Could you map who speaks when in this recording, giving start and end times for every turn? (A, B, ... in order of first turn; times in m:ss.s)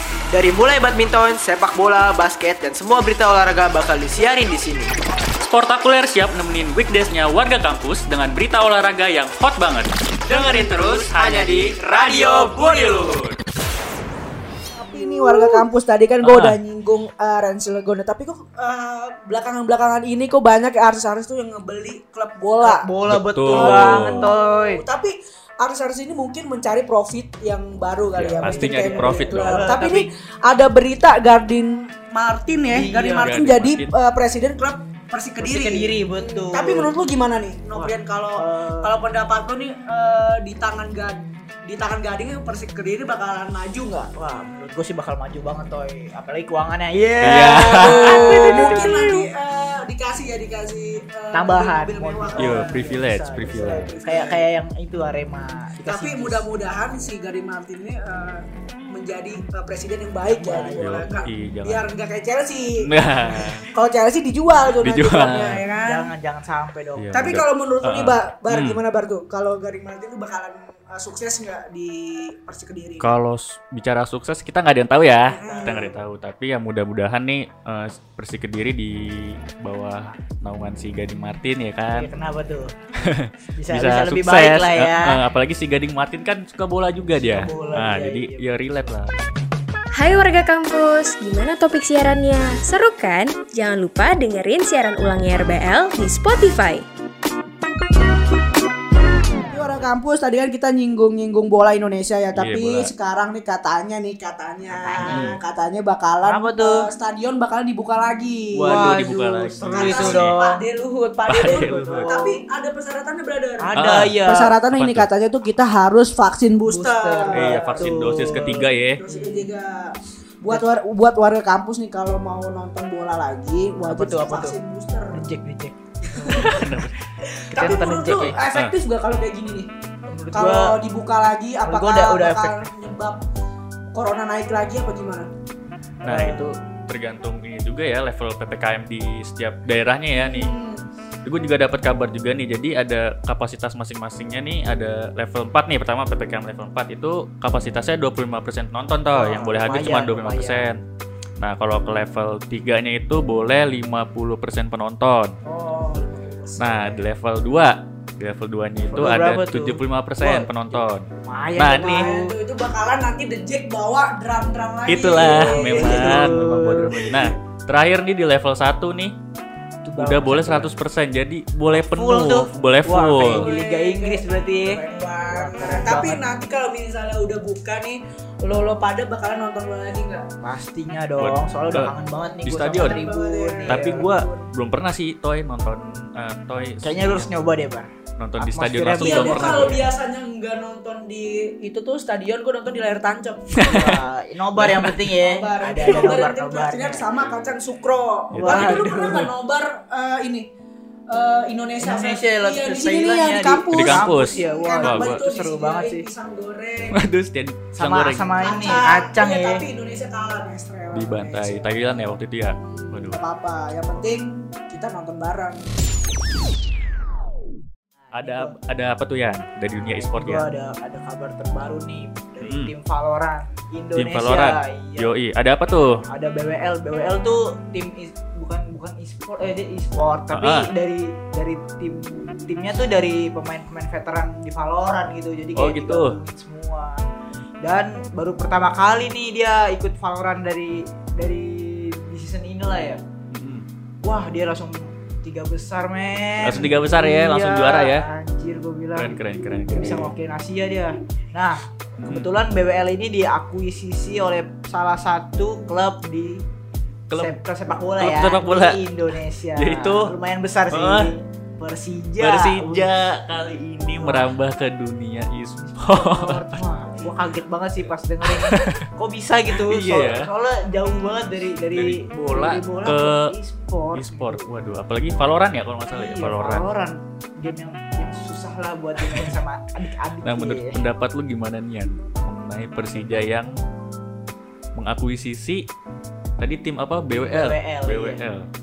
0:00.3-0:04.9 A
0:05.4-0:13.4 B
0:14.7-0:22.9 C
0:16.2-0:16.6 B
0:22.6-0:24.8 A
0:23.1-0:24.3 B
0:23.5-0:44.1 C
0:28.2-0:29.8 B
0:28.3-0:30.1 A
0:32.7-0:33.4 A
0:33.2-0:33.9 B
0:35.4-0:36.9 A
0:37.7-0:39.0 A
0:44.2-0:49.2 A
0:47.2-0:48.8 B
0:47.2-0:52.8 C
0:51.3-0:56.5 A
0:52.4-0:54.0 B
0:53.5-0:54.4 C
0:55.9-1:06.1 C
1:00.3-1:01.1 A
1:00.8-1:01.8 B
1:02.8-1:03.7 B
1:04.8-1:05.6 B
1:05.8-1:07.1 A
1:07.0-1:08.8 B
1:07.1-1:13.1 C
1:13.0-1:22.1 B
1:15.3-1:15.9 C
1:15.4-1:15.9 A
1:21.9-1:22.7 A
1:23.0-1:29.3 B
1:23.6-1:25.2 A
1:27.2-1:28.9 A
1:30.0-1:36.8 D
1:39.5-1:49.1 C
1:42.4-1:42.9 B
1:44.7-1:45.3 A
1:45.0-1:45.4 B
1:46.2-1:46.9 A
1:48.5-1:50.4 B
1:48.6-1:50.6 A
1:49.6-1:57.9 C
1:51.3-1:52.1 B
1:51.5-1:52.4 A
1:53.6-1:54.6 A
1:53.8-1:54.1 B
1:54.7-1:55.1 B
1:56.7-1:59.5 A
1:57.3-1:59.0 B
1:58.9-1:59.8 C
2:00.4-2:05.2 C
2:03.9-2:04.6 A
2:05.1-2:06.8 A
2:06.2-2:06.6 C
2:06.5-2:06.9 B
2:07.2-2:09.7 C
2:07.5-2:08.4 A
2:10.1-2:10.8 A
2:10.3-2:13.2 C
2:11.6-2:12.7 A
2:13.9-2:15.3 C
2:16.0-2:16.5 A
2:16.0-2:20.5 B
2:20.2-2:20.8 C
2:21.2-2:30.8 B
2:29.1-2:30.7 A
2:31.4-2:35.4 B
2:35.6-2:37.0 C
2:36.6-2:42.1 B
2:38.9-2:42.3 A
2:41.6-2:46.3 C
2:44.9-2:49.2 B
2:45.4-2:47.1 A
2:49.8-2:50.7 A
2:50.0-2:53.5 B
2:51.7-2:56.3 A
2:53.2-3:00.2 C
3:00.4-3:04.1 A
3:01.2-3:01.9 B
3:02.4-3:03.0 B
3:02.5-3:04.5 C
3:03.7-3:07.3 B
3:06.8-3:07.9 A
3:08.2-3:09.8 B
3:08.4-3:09.8 A
3:09.0-3:13.8 C
3:13.6-3:17.1 A
3:14.6-3:20.5 C
3:18.3-3:19.2 B
3:18.4-3:19.2 A
3:21.1-3:27.0 C
3:21.8-3:26.1 A
3:23.7-3:25.2 B
3:26.9-3:28.6 B
3:27.8-3:29.7 A
3:28.4-3:31.8 C
3:30.9-3:33.2 B
3:32.6-3:35.6 C
3:38.1-3:38.6 A
3:38.2-3:40.5 B
3:39.7-3:45.1 A
3:42.4-3:42.7 B
3:44.0-3:46.0 B
3:46.1-3:57.0 A
3:50.3-3:50.7 B
3:55.6-3:56.2 B
3:57.6-4:03.0 A
4:03.3-4:03.7 B
4:04.0-4:16.4 A
4:06.4-4:08.1 B
4:09.0-4:10.1 B
4:12.0-4:12.3 B
4:17.1-4:17.4 B
4:17.1-4:22.9 A
4:18.0-4:18.8 B
4:19.6-4:20.1 B
4:20.7-4:21.2 B
4:22.2-4:26.7 B
4:24.0-4:24.3 A
4:25.7-4:34.5 A
4:28.2-4:28.8 B
4:29.5-4:30.3 B
4:31.7-4:33.4 B
4:33.9-4:36.7 B
4:35.9-4:40.8 A
4:39.0-4:39.4 B
4:40.2-4:43.6 B
4:44.8-4:45.7 B
4:46.4-4:48.5 B
4:47.1-4:48.2 A